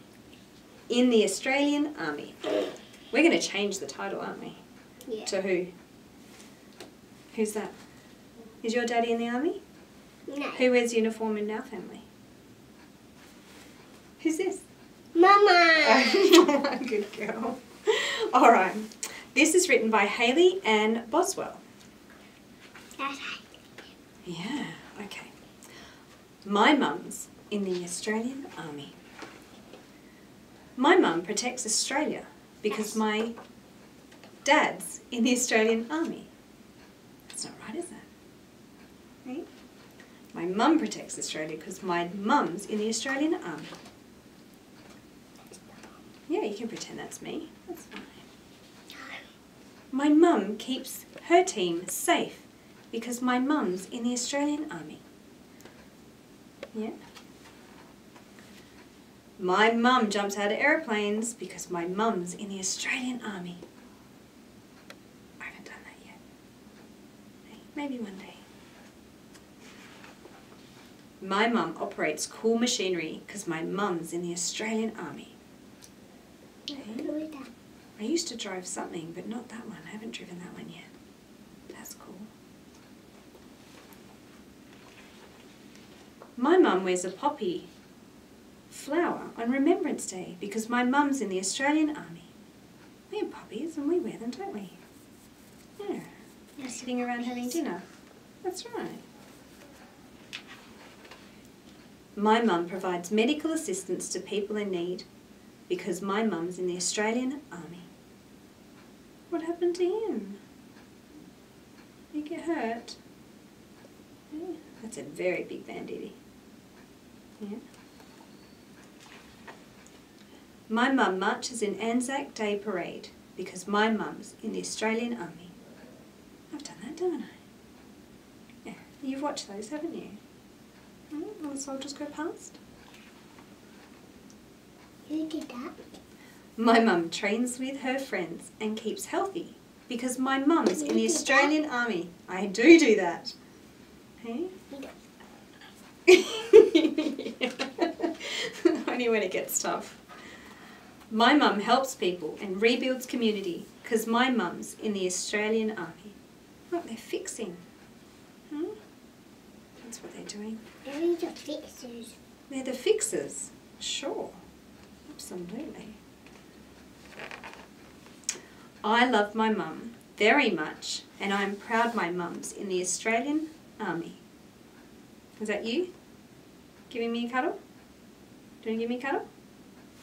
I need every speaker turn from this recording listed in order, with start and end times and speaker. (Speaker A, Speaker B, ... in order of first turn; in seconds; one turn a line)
Speaker A: 0.9-2.5
Speaker A: 3.1-4.6
Speaker A: 5.2-5.7
Speaker A: 7.3-7.7
Speaker A: 8.6-9.6
Speaker B: 10.3-10.7
Speaker A: 10.6-12.1
Speaker A: 14.2-14.7
Speaker B: 15.2-16.3
Speaker A: 15.8-21.6
Speaker B: 23.0-23.6
Speaker A: 24.2-25.3
Speaker A: 26.4-28.9
Speaker A: 30.8-33.4
Speaker A: 34.5-36.3
Speaker A: 37.3-38.1
Speaker A: 40.3-43.7
Speaker B: 45.5-45.8
Speaker A: 46.3-48.2
Speaker B: 48.9-49.2
Speaker A: 49.9-55.0
Speaker A: 59.4-63.6
Speaker A: 65.4-66.2
Speaker A: 67.5-68.4
Speaker A: 71.2-75.3
Speaker B: 76.7-77.5
Speaker A: 76.7-77.2
Speaker A: 78.0-80.9
Speaker A: 81.7-82.3
Speaker A: 86.4-87.7
Speaker A: 88.7-92.3
Speaker A: 93.1-94.8
Speaker A: 95.8-97.8
Speaker B: 96.6-97.6
Speaker A: 98.4-99.0
Speaker A: 102.2-105.1
Speaker A: 105.7-107.9
Speaker A: 109.3-110.4
Speaker A: 112.1-113.0
Speaker A: 114.3-116.2
Speaker A: 120.7-125.5
Speaker A: 126.5-127.4
Speaker A: 128.7-130.2
Speaker A: 131.1-132.6
Speaker B: 135.1-135.8
Speaker A: 136.6-143.3
Speaker B: 140.8-141.5
Speaker A: 144.2-144.6
Speaker A: 146.1-150.0
Speaker A: 151.1-156.2
Speaker A: 156.7-157.6
Speaker A: 158.5-158.8
Speaker A: 159.8-160.6
Speaker B: 160.9-162.2
Speaker A: 162.5-164.4
Speaker A: 165.1-166.0
Speaker A: 168.8-174.2
Speaker A: 175.4-175.9
Speaker A: 176.9-177.6
Speaker A: 178.6-179.2